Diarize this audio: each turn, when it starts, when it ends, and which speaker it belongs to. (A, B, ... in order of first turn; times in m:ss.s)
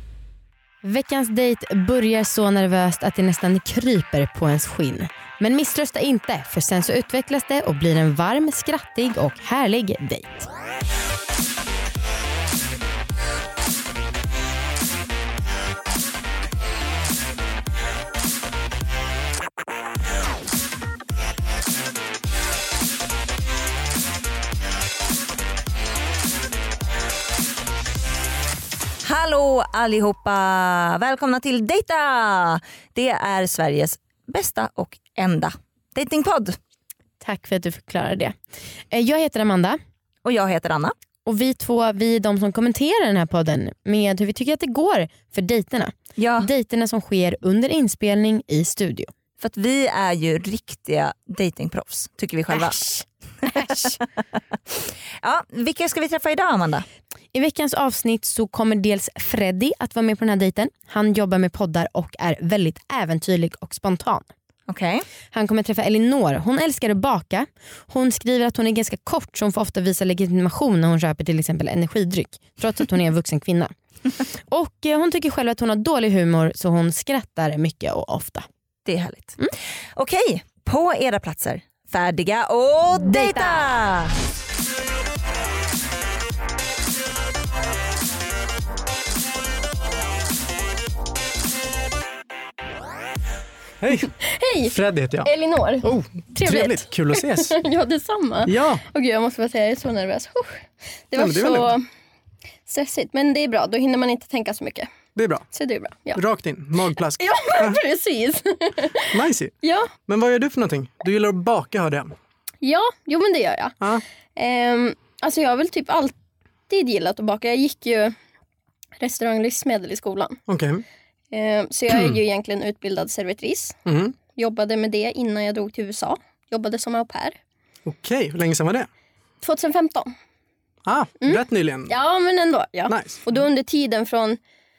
0:00.8-0:10.5 A
0:29.0-0:36.6 B
0:37.2-0:38.4 A
0:38.9-0:39.8 A
0:40.2-0:40.9 B
0:41.2-0:49.1 A
0:46.2-0:46.5 B
0:49.4-0:52.8 B
0:52.5-0:54.0 A
0:55.2-0:56.9 B
0:57.3-1:04.3 A
1:04.7-1:05.0 B
1:05.3-1:13.7 A
1:14.5-1:18.5 A
1:18.8-1:19.4 B
1:20.0-1:24.1 B
1:23.0-1:23.7 A
1:33.8-1:34.1 C
1:34.2-1:41.8 D
1:34.7-1:35.3 C
1:35.8-1:37.6 C
1:38.5-1:38.8 C
1:41.2-1:41.8 C
1:42.7-1:44.9 D
1:45.2-1:45.4 C
1:45.5-1:46.2 D
1:46.2-1:47.8 C
1:47.2-1:49.9 D
1:49.1-1:49.5 C
1:50.1-1:52.1 C
1:52.6-1:56.2 D
1:56.7-1:58.2 D
1:59.0-2:00.4 D
2:00.5-2:00.8 C
2:01.3-2:03.8 D
2:01.9-2:02.2 C
2:03.9-2:04.2 C
2:04.3-2:07.4 D
2:07.9-2:08.9 C
2:09.4-2:10.1 D
2:10.9-2:11.9 C
2:11.2-2:14.4 D
2:12.9-2:13.2 C